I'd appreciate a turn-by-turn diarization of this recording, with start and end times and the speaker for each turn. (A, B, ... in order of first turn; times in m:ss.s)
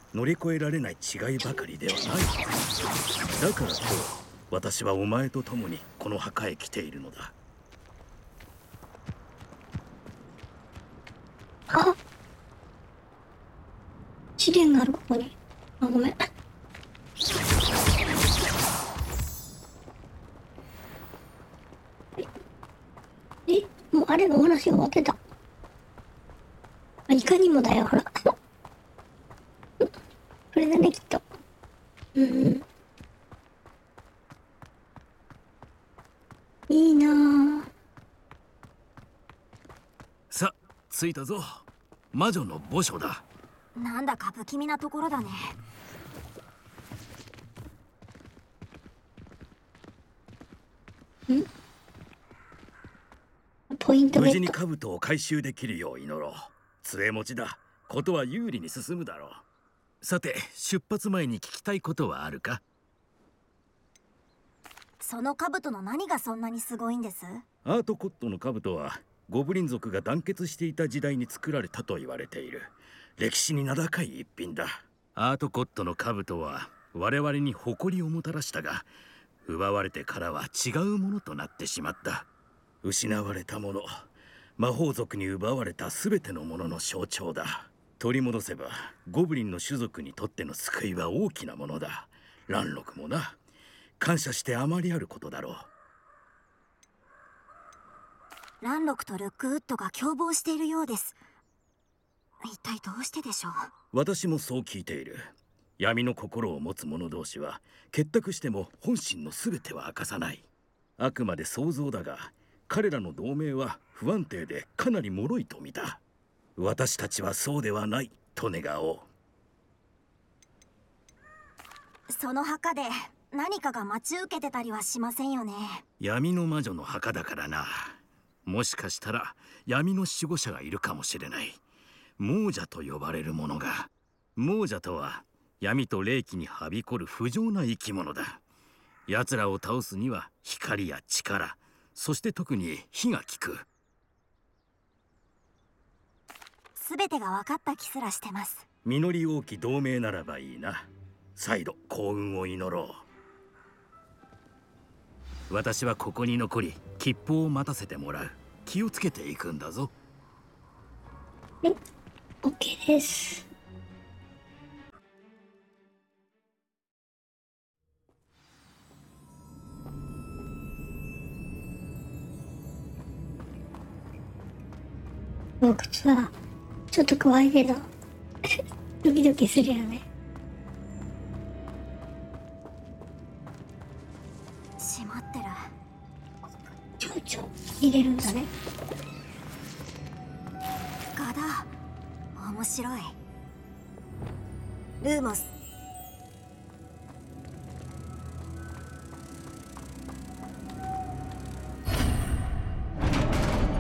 0:00.1-0:02.5 A
0:03.3-0:07.3 A
0:11.7-0:12.0 B
0:14.4-0:16.3 B
0:23.5-0:25.2 B
0:27.1-0:28.4 B
0:30.5-0:31.2 B
0:32.2-0:32.6 B
0:36.7-0:37.7 B
0:40.3-0:43.2 A
0:43.8-0:45.5 C
0:53.7-0:54.6 B
0:54.1-0:59.4 A
1:00.0-1:02.6 A
1:05.0-1:07.4 C
1:07.6-1:18.9 A
1:19.4-1:22.3 A
1:22.8-1:24.1 A
1:24.6-1:33.4 A
1:34.0-1:35.7 A
1:38.6-1:41.2 C
1:42.4-1:43.7 C
1:43.9-1:50.5 A
1:51.0-1:56.0 A
1:56.6-1:59.1 A
2:02.1-2:05.8 C
2:06.0-2:11.6 A
2:12.2-2:18.4 A
2:19.1-2:23.7 A
2:26.8-2:28.6 C
2:28.8-2:33.0 A
2:35.5-2:39.9 A
2:42.4-2:43.5 B
2:55.6-2:56.3 B
2:56.9-2:57.9 B
2:58.5-3:00.0 B
3:04.8-3:05.7 C
3:07.0-3:08.5 B
3:11.2-3:11.7 C
3:12.4-3:13.2 C
3:15.0-3:15.5 C